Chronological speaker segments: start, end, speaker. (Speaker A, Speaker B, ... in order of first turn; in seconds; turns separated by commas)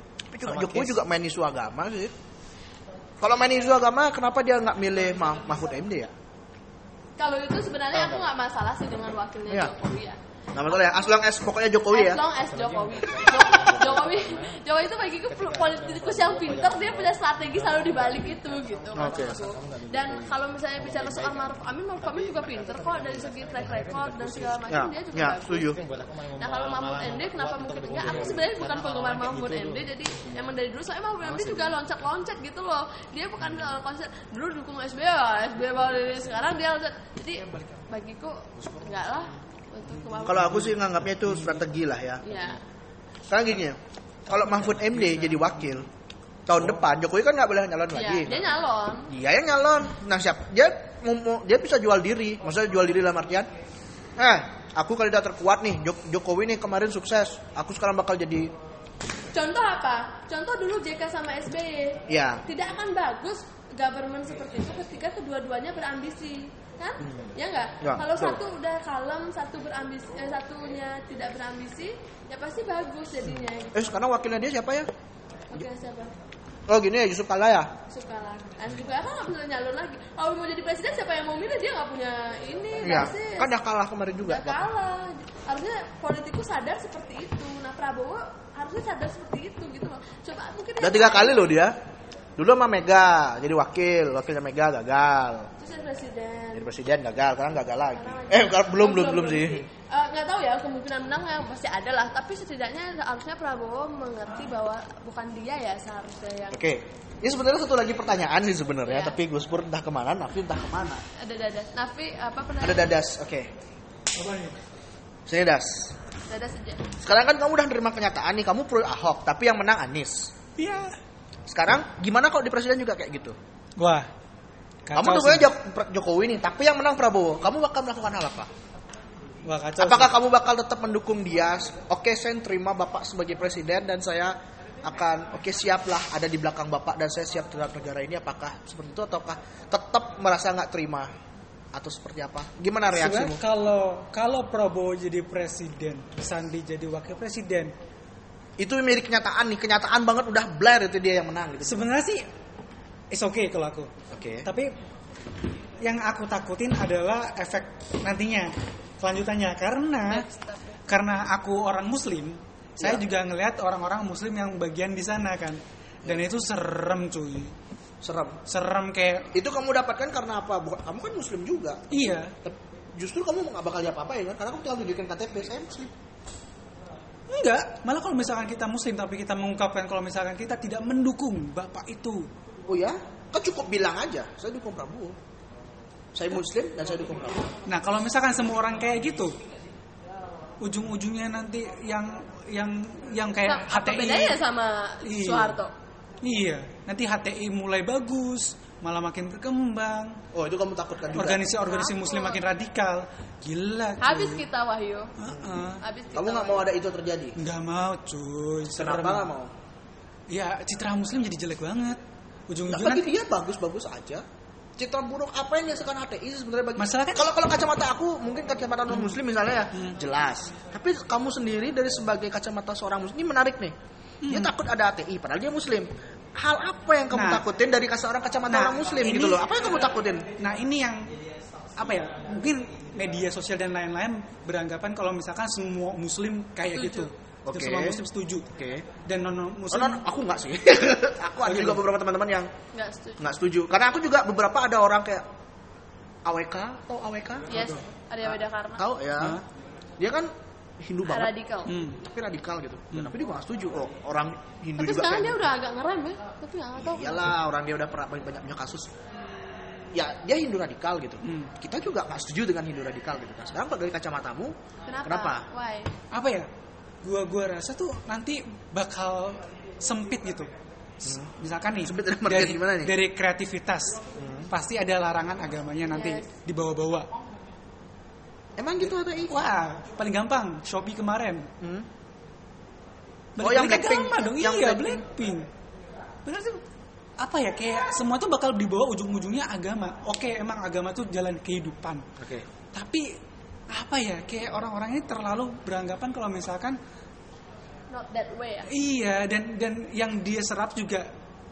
Speaker A: 0.3-2.1, Speaker B: 0.4-1.0, Speaker A: 3.2-6.1, Speaker C: 7.2-10.2, Speaker B: 7.9-8.3, Speaker A: 10.5-12.2, Speaker C: 11.9-25.8, Speaker B: 12.3-14.6, Speaker B: 15.3-24.7, Speaker A: 18.9-19.4, Speaker A: 24.7-25.8, Speaker B: 25.5-30.5, Speaker C: 26.4-40.7, Speaker B: 31.2-31.8, Speaker B: 33.4-33.7, Speaker B: 38.6-39.2, Speaker A: 40.2-42.2, Speaker C: 42.2-42.6, Speaker A: 43.3-45.9, Speaker A: 46.5-48.5, Speaker C: 47.9-49.1, Speaker A: 49.1-53.5, Speaker A: 54.2-58.5, Speaker C: 59.3-73.8, Speaker A: 62.1-62.4, Speaker A: 67.8-68.4, Speaker A: 73.7-74.9, Speaker C: 75.5-76.1, Speaker A: 76.7-77.7, Speaker C: 77.9-83.5, Speaker A: 82.8-84.6, Speaker C: 84.2-91.6, Speaker A: 90.8-91.8, Speaker A: 92.4-95.5, Speaker C: 95.6-96.7, Speaker A: 96.5-99.6, Speaker C: 97.9-106.6, Speaker A: 106.5-111.0, Speaker C: 108.8-109.2, Speaker C: 111.2-112.9, Speaker A: 112.6-113.5, Speaker D: 114.1-114.6, Speaker A: 115.3-115.9, Speaker C: 116.3-116.8, Speaker A: 117.0-120.3, Speaker D: 120.6-121.0, Speaker A: 121.5-123.4, Speaker D: 123.8-124.1, Speaker D: 124.8-125.5, Speaker A: 124.9-128.5, Speaker D: 129.4-130.1, Speaker A: 129.8-141.1, Speaker A: 141.7-143.4, Speaker D: 142.9-147.7, Speaker A: 148.6-151.9, Speaker D: 151.6-152.3, Speaker D: 153.1-153.9, Speaker A: 154.1-154.5, Speaker D: 154.4-154.7, Speaker D: 155.8-160.2, Speaker C: 160.1-160.8, Speaker D: 160.9-167.5, Speaker A: 162.8-163.0, Speaker A: 168.0-168.4, Speaker D: 168.4-169.3, Speaker A: 169.3-175.9, Speaker D: 171.9-172.3, Speaker D: 177.3-182.3, Speaker A: 182.7-185.2, Speaker A: 186.1-187.5, Speaker D: 187.7-189.4, Speaker D: 190.6-194.4, Speaker C: 193.4-195.7, Speaker D: 195.0-195.6, Speaker D: 196.2-200.2, Speaker A: 200.3-201.5, Speaker D: 201.1-204.4, Speaker C: 201.6-202.4, Speaker C: 204.0-205.1, Speaker D: 205.2-205.8, Speaker C: 205.8-206.7, Speaker A: 206.1-207.4, Speaker D: 207.4-209.3, Speaker A: 208.7-209.5, Speaker D: 210.3-213.1, Speaker A: 212.7-214.2, Speaker A: 214.8-230.3, Speaker D: 216.8-217.3, Speaker D: 218.9-219.2, Speaker D: 224.2-224.5, Speaker D: 227.1-227.4, Speaker D: 228.5-229.6, Speaker D: 230.3-231.1, Speaker B: 231.1-233.3, Speaker D: 231.8-238.4, Speaker C: 236.7-237.1, Speaker A: 237.4-238.0, Speaker A: 238.5-238.9, Speaker D: 239.0-240.0, Speaker A: 239.7-242.5, Speaker D: 241.4-241.8, Speaker C: 242.7-243.3, Speaker A: 243.2-245.3, Speaker A: 246.2-247.6, Speaker C: 247.5-248.8, Speaker D: 247.5-247.8, Speaker A: 248.2-249.4, Speaker D: 249.2-249.4, Speaker A: 250.0-251.3, Speaker C: 251.1-251.7, Speaker D: 251.7-252.0, Speaker A: 251.9-255.5, Speaker C: 254.8-257.3, Speaker A: 256.8-258.9, Speaker C: 259.3-259.9, Speaker A: 259.9-265.5, Speaker D: 261.2-261.5, Speaker C: 264.9-265.9, Speaker D: 266.1-266.5, Speaker D: 267.0-270.5, Speaker D: 271.0-277.1, Speaker A: 271.8-272.9, Speaker A: 274.1-274.5, Speaker C: 275.9-276.3, Speaker A: 278.6-279.4, Speaker D: 279.2-281.5, Speaker A: 281.6-281.9, Speaker D: 283.4-285.5, Speaker A: 283.4-285.0, Speaker D: 286.2-286.6, Speaker D: 287.2-292.1, Speaker A: 292.2-292.4, Speaker D: 292.7-293.1, Speaker D: 293.7-296.8, Speaker C: 297.9-298.7, Speaker D: 298.7-301.1